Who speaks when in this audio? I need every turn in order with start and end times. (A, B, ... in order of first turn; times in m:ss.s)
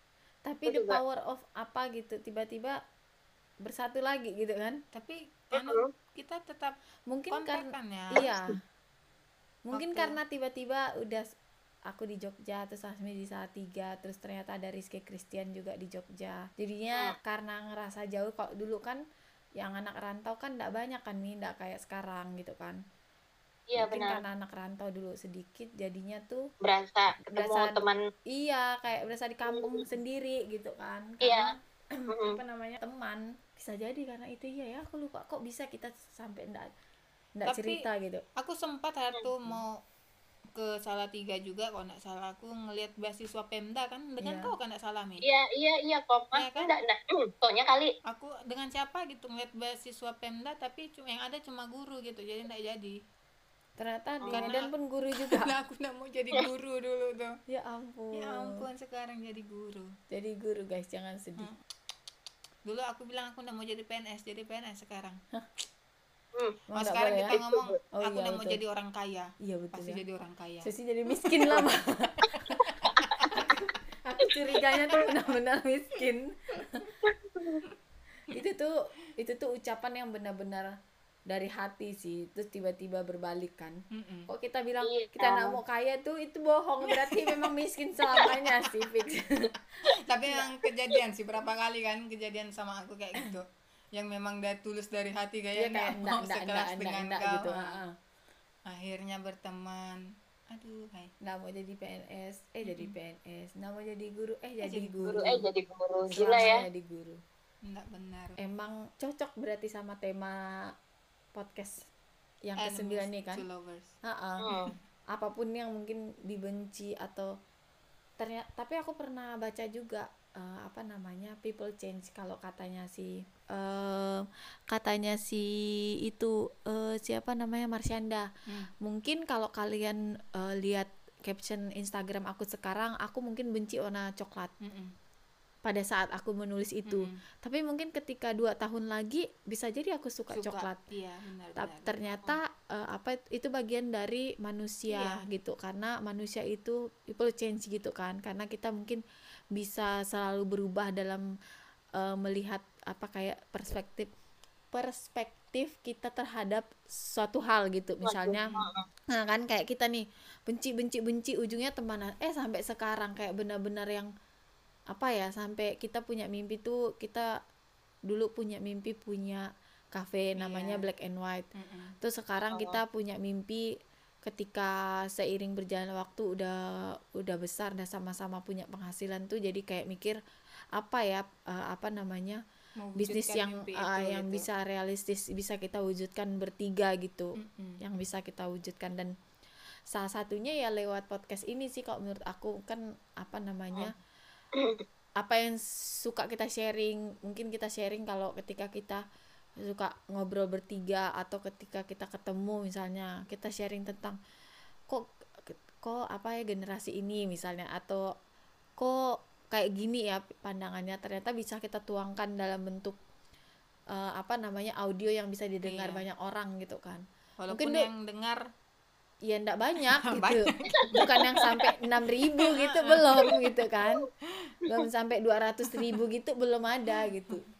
0:00.4-0:02.8 A
0:00.7-0:01.0 B
0:03.6-0:04.8 A
0:04.9-0:06.8 C
0:05.5-0:05.9 B
0:07.1-0:08.6 A
0:07.3-0:08.3 C
0:09.7-0:11.3 A
0:09.7-0:10.2 C
0:11.9-0:19.0 A
0:19.6-0:22.8 A
0:23.7-0:24.2 B
0:23.8-0:26.5 A
0:26.6-0:28.0 B
0:27.3-0:36.7 A
0:29.5-0:29.8 B
0:31.2-0:31.5 B
0:32.1-0:32.4 B
0:37.4-0:38.2 A
0:37.4-0:37.8 C
0:38.4-0:39.8 C
0:40.5-0:45.2 C
0:44.2-0:44.5 A
0:45.2-0:47.9 B
0:46.3-0:46.7 C
0:48.1-0:53.0 C
0:53.8-0:55.5 A
0:54.3-0:57.3 C
0:57.5-0:58.6 A
0:58.1-0:59.9 C
1:00.1-1:01.5 A
1:02.6-1:05.2 C
1:06.4-1:06.6 B
1:06.7-1:07.4 A
1:06.8-1:10.7 C
1:07.3-1:07.8 B
1:08.0-1:08.6 A
1:09.4-1:10.0 A
1:10.6-1:16.9 A
1:11.2-1:11.6 C
1:12.5-1:13.6 C
1:14.7-1:15.0 B
1:17.0-1:17.6 B
1:18.3-1:20.7 A
1:21.3-1:30.5 A
1:23.9-1:24.3 C
1:24.8-1:25.6 B
1:26.8-1:27.5 C
1:28.2-1:28.7 C
1:29.9-1:37.8 C
1:35.6-1:37.9 A
1:38.7-1:41.1 C
1:41.2-1:45.4 A
1:42.6-1:42.9 C
1:44.6-1:45.2 C
1:45.1-1:46.6 B
1:46.1-1:47.2 A
1:47.6-1:48.4 C
1:48.4-1:50.7 A
1:51.3-1:51.9 A
1:52.4-1:53.4 A
1:52.6-1:53.9 C
1:54.0-1:54.6 A
1:54.4-1:54.7 B
1:55.1-1:57.3 A
1:58.2-2:08.3 A
2:08.8-2:14.5 A
2:14.6-2:14.9 C
2:15.6-2:20.8 A
2:16.8-2:17.2 C
2:20.3-2:22.1 C
2:21.6-2:29.0 A
2:24.9-2:25.2 C
2:29.5-2:31.2 A
2:32.0-2:34.1 A
2:34.7-2:38.6 A
2:38.0-2:38.8 B
2:39.1-2:44.1 A
2:44.9-2:47.3 A
2:48.1-2:51.5 A
2:50.4-2:50.9 C
2:51.5-2:51.9 C
2:52.0-2:53.7 A
2:52.5-2:52.8 B
2:54.2-3:00.2 A
3:00.8-3:02.4 A
3:02.8-3:04.4 C
3:03.0-3:09.1 A
3:07.4-3:07.8 C
3:09.9-3:13.9 A
3:14.5-3:14.8 B
3:15.2-3:19.0 A
3:19.6-3:24.2 A
3:24.9-3:28.0 A
3:28.8-3:33.0 A
3:33.9-3:37.9 A
3:35.6-3:36.0 C
3:37.4-3:38.4 C
3:39.3-3:44.0 A
3:39.8-3:41.1 C
3:40.7-3:41.7 B
3:42.4-3:43.4 C
3:44.7-3:47.4 A
3:45.7-3:46.0 C
3:46.9-3:47.4 C